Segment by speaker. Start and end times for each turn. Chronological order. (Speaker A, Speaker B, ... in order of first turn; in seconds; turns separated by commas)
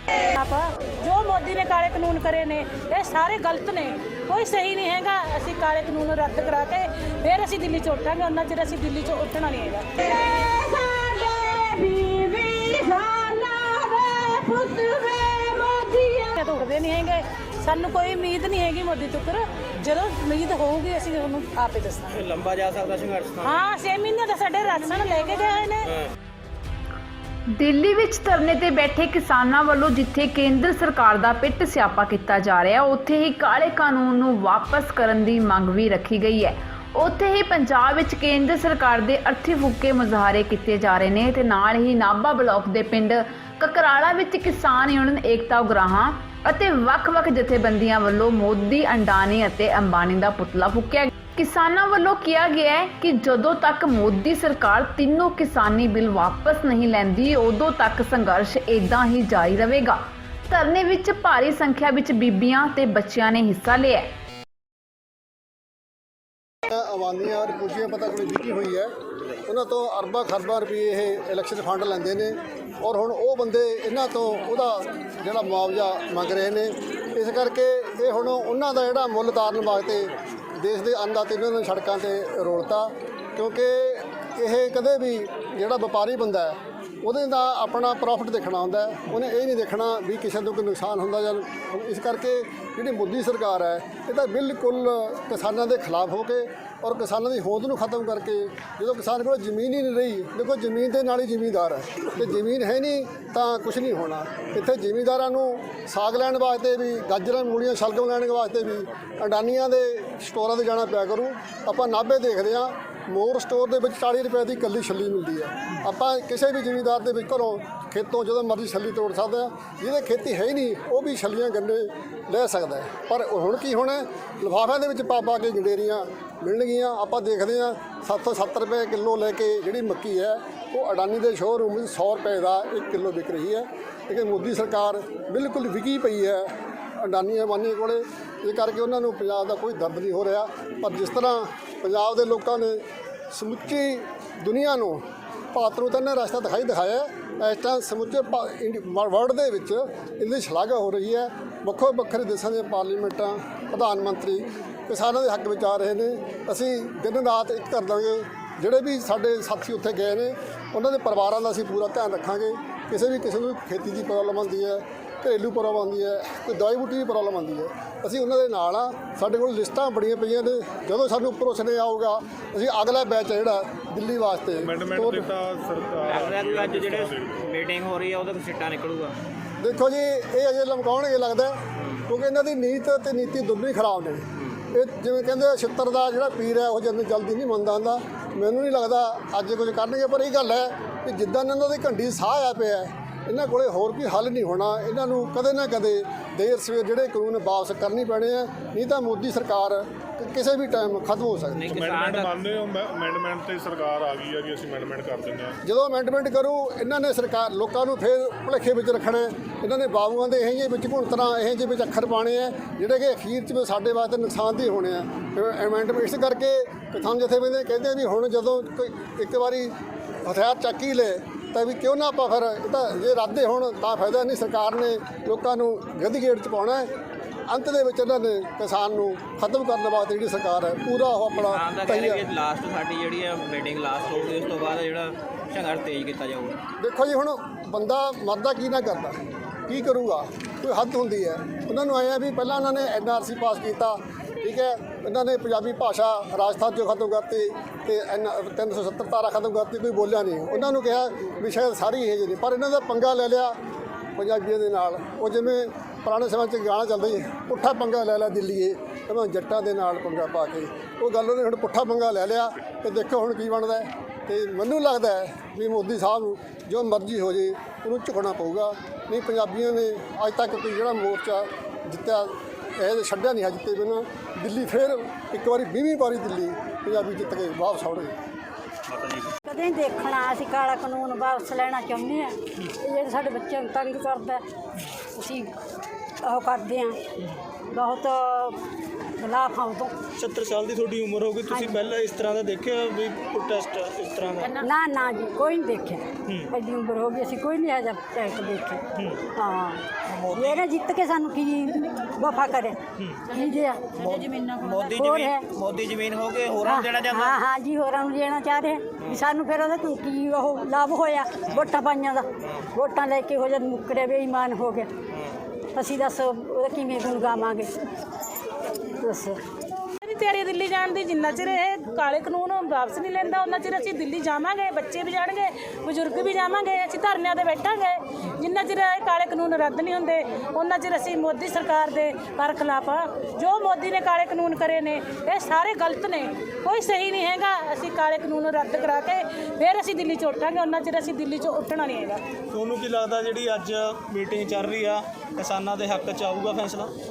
Speaker A: 0.1-10.0, Speaker B: 10.0-16.3, Speaker A: 16.3-22.2, Speaker C: 22.1-23.5, Speaker A: 23.4-25.9, Speaker D: 27.6-64.1, Speaker E: 66.7-68.9, Speaker E: 69.4-175.3, Speaker F: 174.6-177.5, Speaker C: 176.0-179.2, Speaker E: 179.6-201.7, Speaker C: 181.8-182.1, Speaker C: 201.5-202.4, Speaker F: 201.7-205.6, Speaker E: 205.6-219.7, Speaker E: 220.2-226.9, Speaker E: 227.5-232.3, Speaker C: 231.4-236.6, Speaker E: 236.8-253.6, Speaker E: 254.2-278.1, Speaker C: 278.9-279.3, Speaker B: 279.4-284.4, Speaker B: 285.1-285.5, Speaker B: 286.2-287.0, Speaker B: 287.7-288.6, Speaker B: 289.2-289.9, Speaker G: 290.2-294.6, Speaker B: 291.5-291.8, Speaker B: 294.6-304.1, Speaker C: 300.1-300.6, Speaker C: 304.0-307.4, Speaker B: 304.7-305.5, Speaker B: 306.6-314.9, Speaker B: 315.8-317.7, Speaker B: 319.0-319.4, Speaker A: 320.0-342.2, Speaker G: 342.5-346.9